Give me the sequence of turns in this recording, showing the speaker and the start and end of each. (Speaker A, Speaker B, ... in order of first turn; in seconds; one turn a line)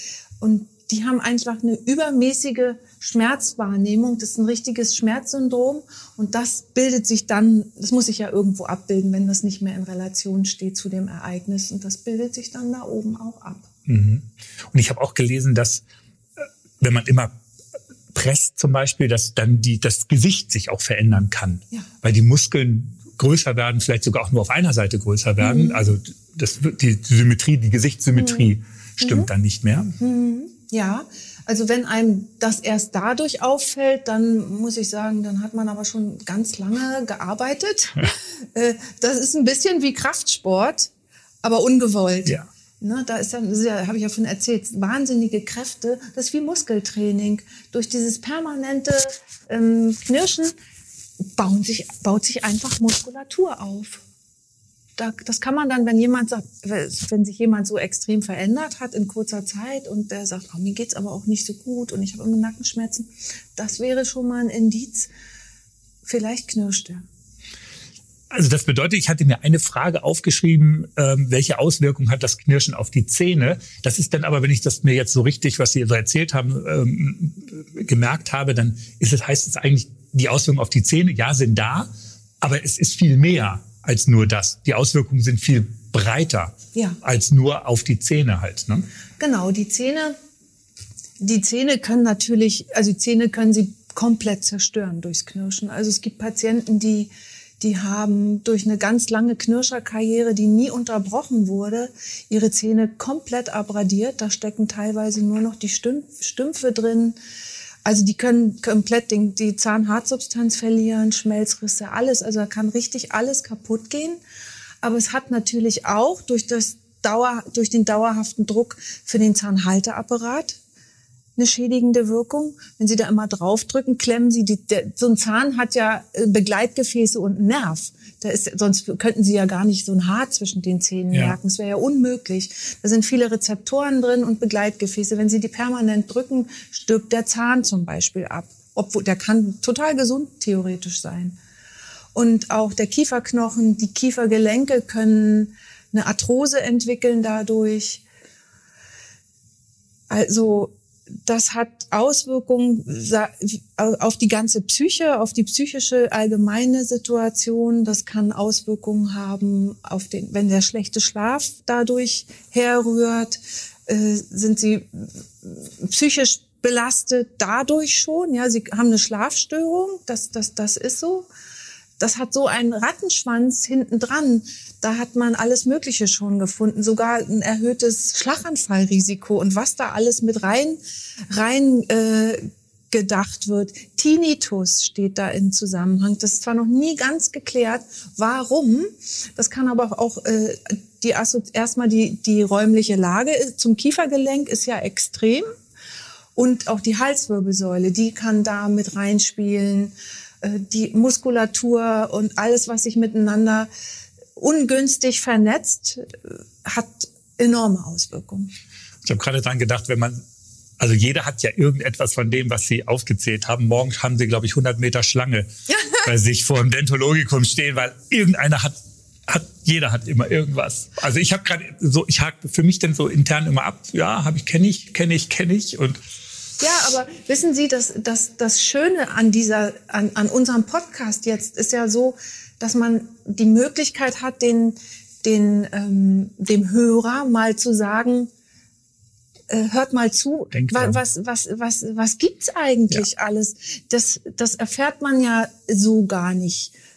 Speaker A: 0.4-13.7
Speaker B: 13.9-15.8
Speaker B: 16.4-17.3
Speaker B: 18.1-29.9
Speaker A: 25.4-25.9
Speaker A: 28.1-28.5
Speaker A: 29.0-29.3
Speaker A: 30.0-40.9
Speaker A: 41.4-50.5
Speaker A: 51.4-54.0
Speaker A: 55.0-65.1
Speaker A: 66.0-67.0
Speaker B: 68.3-81.9
Speaker B: 82.4-88.9
Speaker A: 89.2-90.2
Speaker A: 91.2-107.2
Speaker A: 107.8-114.2
Speaker A: 114.8-120.6
Speaker A: 121.4-141.4
Speaker A: 142.2-148.0
Speaker A: 150.1-150.7
Speaker A: 151.3-171.3
Speaker A: 172.0-180.8
Speaker A: 181.3-195.5
Speaker A: 196.4-203.7
Speaker A: 204.4-208.5
Speaker B: 209.0-210.2
Speaker B: 210.8-215.5
Speaker A: 215.7-216.1
Speaker B: 216.0-226.0
Speaker A: 226.6-238.3
Speaker A: 239.5-246.7
Speaker B: 240.5-241.0